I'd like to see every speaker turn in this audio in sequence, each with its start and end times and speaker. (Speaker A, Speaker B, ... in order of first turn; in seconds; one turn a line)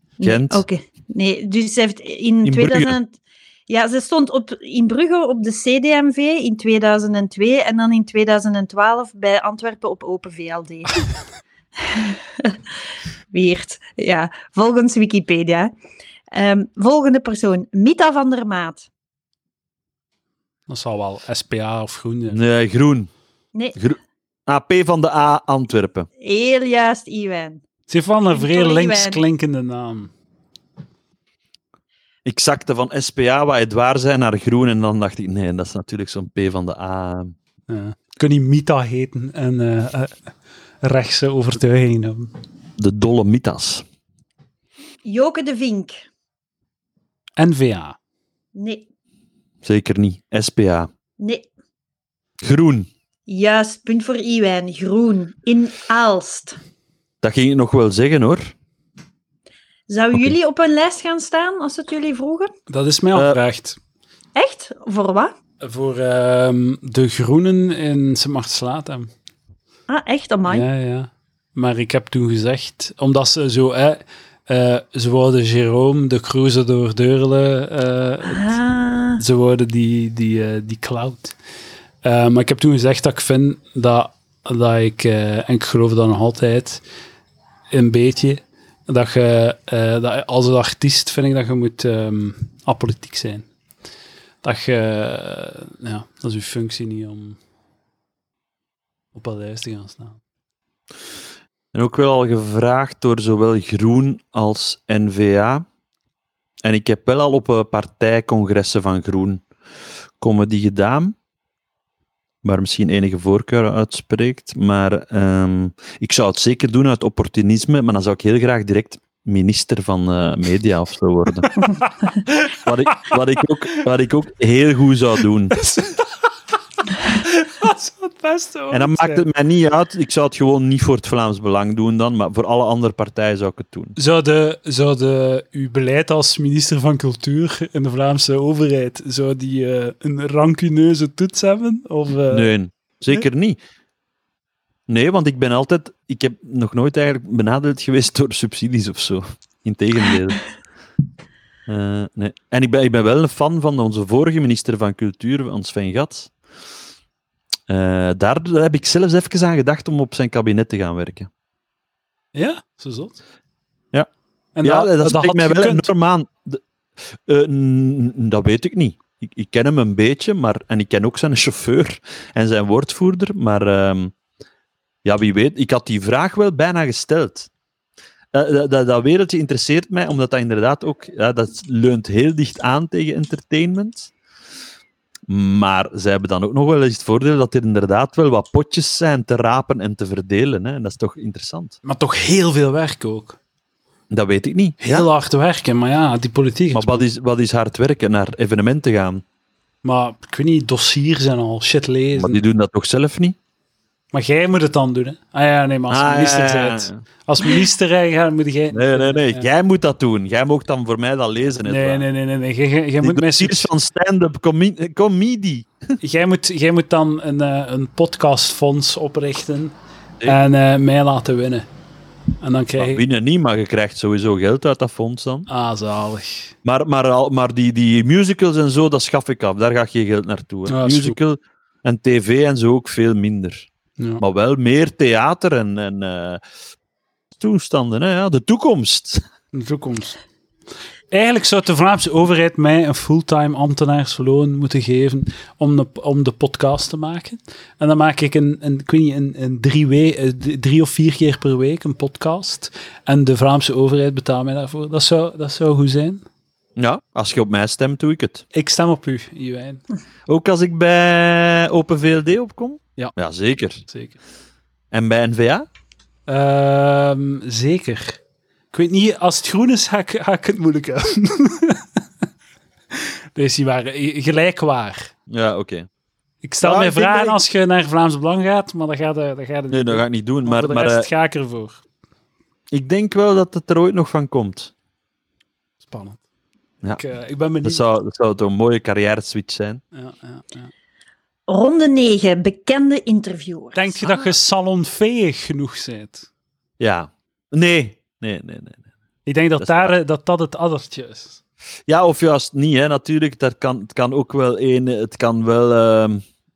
Speaker A: 0.2-3.1
Speaker B: 0.2-0.7
Speaker B: 2.4-2.9
Speaker A: 3.7-11.0
Speaker A: 11.8-12.6
Speaker A: 13.3-15.7
Speaker A: 16.3-18.9
Speaker C: 20.7-22.4
Speaker B: 22.3-23.1
Speaker B: 23.8-26.1
Speaker A: 26.2-27.6
Speaker C: 27.9-30.1
Speaker A: 28.3-29.2
Speaker B: 32.2-37.3
Speaker C: 37.7-42.3
Speaker B: 42.8-43.9
Speaker A: 45.0-46.0
Speaker C: 47.4-48.0
Speaker A: 48.5-48.9
Speaker B: 49.6-50.9
Speaker A: 51.2-51.5
Speaker B: 52.4-52.9
Speaker A: 53.3-56.6
Speaker B: 57.2-58.5
Speaker A: 59.9-62.5
Speaker C: 62.7-63.8
Speaker A: 64.3-65.3
Speaker C: 65.6-69.1
Speaker A: 69.9-70.7
Speaker C: 70.5-78.5
Speaker A: 78.3-79.2
Speaker C: 79.2-81.4
Speaker C: 82.0-86.8
Speaker C: 87.7-93.5
Speaker C: 94.4-97.4
Speaker C: 99.1-100.2
Speaker B: 101.7-105.7
Speaker B: 106.6-109.4
Speaker B: 110.2-111.2
Speaker B: 112.4-121.5
Speaker C: 122.3-122.5
Speaker B: 122.5-125.6
Speaker C: 125.5-126.1
Speaker C: 127.0-129.3
Speaker B: 128.7-133.9
Speaker C: 134.0-142.5
Speaker B: 142.3-143.6
Speaker B: 144.9-150.4
Speaker B: 151.7-156.3
Speaker B: 157.7-161.3
Speaker C: 162.3-163.2
Speaker C: 164.6-165.9
Speaker B: 164.6-166.6
Speaker B: 167.2-174.1
Speaker B: 175.0-177.5
Speaker B: 178.3-184.1
Speaker B: 185.3-191.8
Speaker C: 191.8-193.4
Speaker B: 194.1-195.1
Speaker C: 194.8-197.0
Speaker B: 196.7-199.2
Speaker C: 199.8-202.4
Speaker B: 202.2-203.4
Speaker C: 204.1-209.5
Speaker B: 205.9-207.0
Speaker B: 208.7-212.1
Speaker C: 211.7-213.7
Speaker B: 213.0-215.7
Speaker C: 216.0-221.7
Speaker C: 222.4-223.0
Speaker B: 222.8-225.5
Speaker C: 225.5-226.5
Speaker B: 226.6-233.7
Speaker C: 230.7-231.2
Speaker B: 234.2-236.4
Speaker B: 237.3-239.2
Speaker C: 239.5-240.2
Speaker C: 241.1-256.2
Speaker B: 256.8-258.4
Speaker C: 258.5-259.8
Speaker B: 260.3-263.8
Speaker C: 263.8-264.2
Speaker B: 264.9-265.7
Speaker C: 266.3-268.2
Speaker C: 268.7-271.9
Speaker C: 273.0-275.1
Speaker B: 275.3-275.9
Speaker C: 276.4-281.8
Speaker B: 276.6-277.4
Speaker B: 279.7-281.1
Speaker B: 282.7-284.7
Speaker C: 285.8-286.2
Speaker C: 286.9-287.8
Speaker B: 287.6-289.8
Speaker C: 289.9-290.7
Speaker A: 291.5-294.3
Speaker C: 293.8-296.3
Speaker B: 296.8-298.8
Speaker C: 299.3-301.4
Speaker B: 299.6-299.9
Speaker B: 301.9-306.2